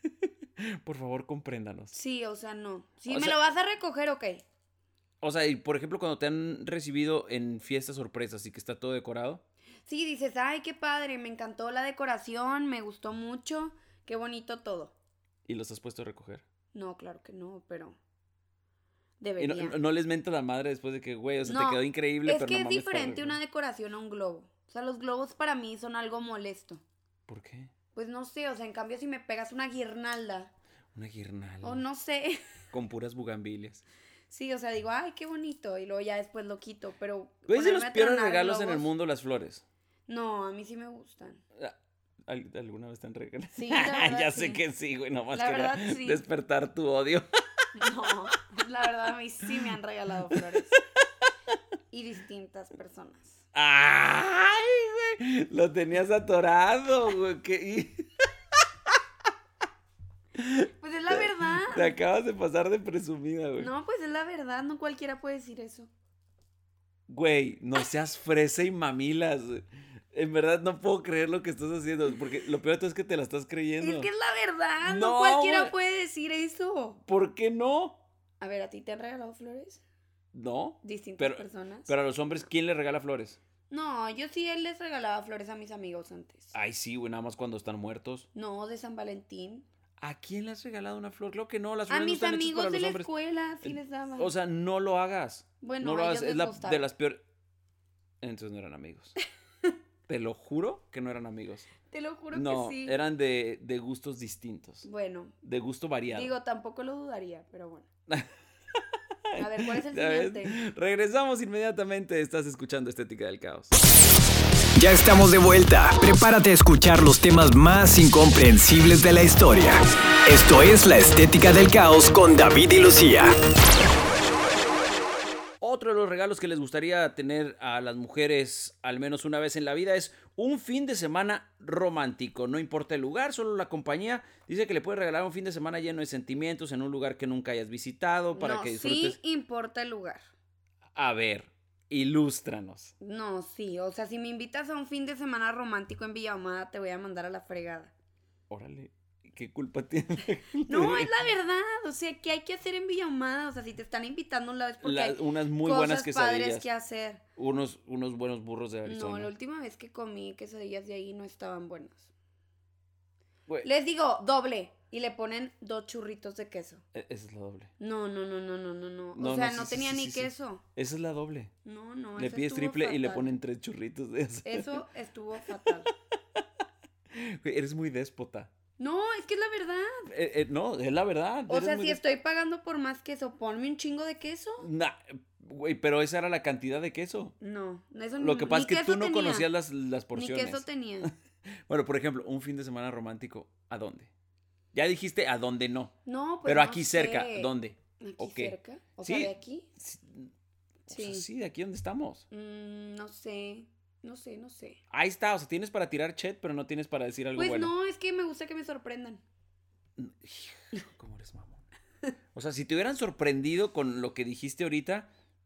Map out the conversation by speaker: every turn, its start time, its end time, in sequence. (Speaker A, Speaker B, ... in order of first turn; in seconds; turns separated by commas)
Speaker A: 0.6-1.9, Speaker B: 1.9-4.4, Speaker A: 3.1-3.3, Speaker A: 5.2-9.4, Speaker B: 9.8-14.9, Speaker A: 15.4-16.4, Speaker B: 16.7-18.0, Speaker B: 19.2-19.8, Speaker A: 19.4-23.4, Speaker B: 21.4-26.8, Speaker A: 27.3-27.7, Speaker B: 27.9-30.5, Speaker A: 30.9-31.8, Speaker B: 31.6-32.4, Speaker A: 32.7-33.8, Speaker B: 34.3-38.9, Speaker A: 37.5-39.6, Speaker B: 40.1-41.4, Speaker A: 42.2-47.3, Speaker B: 43.5-44.6, Speaker B: 45.3-46.2, Speaker B: 47.7-50.8, Speaker B: 51.9-53.4, Speaker A: 53.5-58.1, Speaker A: 60.4-63.7, Speaker B: 60.8-61.9, Speaker B: 63.6-65.9, Speaker A: 67.1-74.1, Speaker B: 73.8-77.0, Speaker A: 74.8-75.7, Speaker A: 77.1-78.0, Speaker B: 78.4-79.8, Speaker A: 80.3-83.4, Speaker B: 80.8-81.9, Speaker B: 83.7-86.5, Speaker A: 86.5-88.3, Speaker B: 88.3-89.7, Speaker A: 90.0-93.1, Speaker B: 91.9-94.3, Speaker A: 93.6-97.2, Speaker B: 95.6-96.8, Speaker A: 98.2-99.2, Speaker A: 100.1-101.7, Speaker B: 101.9-103.0, Speaker A: 102.3-104.8, Speaker B: 104.8-105.3, Speaker A: 105.4-106.3, Speaker B: 106.1-107.9, Speaker A: 109.3-113.7, Speaker B: 109.4-110.6, Speaker C: 114.7-123.3, Speaker A: 125.6-139.2, Speaker B: 138.3-140.2, Speaker A: 140.9-142.9, Speaker B: 143.0-147.9, Speaker A: 148.5-151.1, Speaker B: 150.7-157.2, Speaker A: 154.8-156.7, Speaker A: 157.4-159.3, Speaker B: 158.8-162.1, Speaker B: 163.6-166.8, Speaker A: 166.9-167.7, Speaker B: 167.8-170.6, Speaker A: 169.2-171.5, Speaker B: 171.6-173.3, Speaker A: 172.2-174.8, Speaker B: 174.4-175.9, Speaker A: 177.1-178.5, Speaker B: 178.8-180.1, Speaker A: 180.1-182.0, Speaker B: 181.5-184.7, Speaker A: 184.6-187.3, Speaker B: 187.4-189.5, Speaker A: 188.2-191.1, Speaker B: 190.1-191.1, Speaker A: 191.7-194.1, Speaker A: 194.7-195.9, Speaker B: 196.1-199.7, Speaker A: 196.4-200.3, Speaker B: 200.9-201.2, Speaker A: 200.9-202.2, Speaker B: 202.3-204.8, Speaker A: 204.9-207.7, Speaker B: 207.3-209.2, Speaker A: 210.0-211.6, Speaker A: 212.3-215.1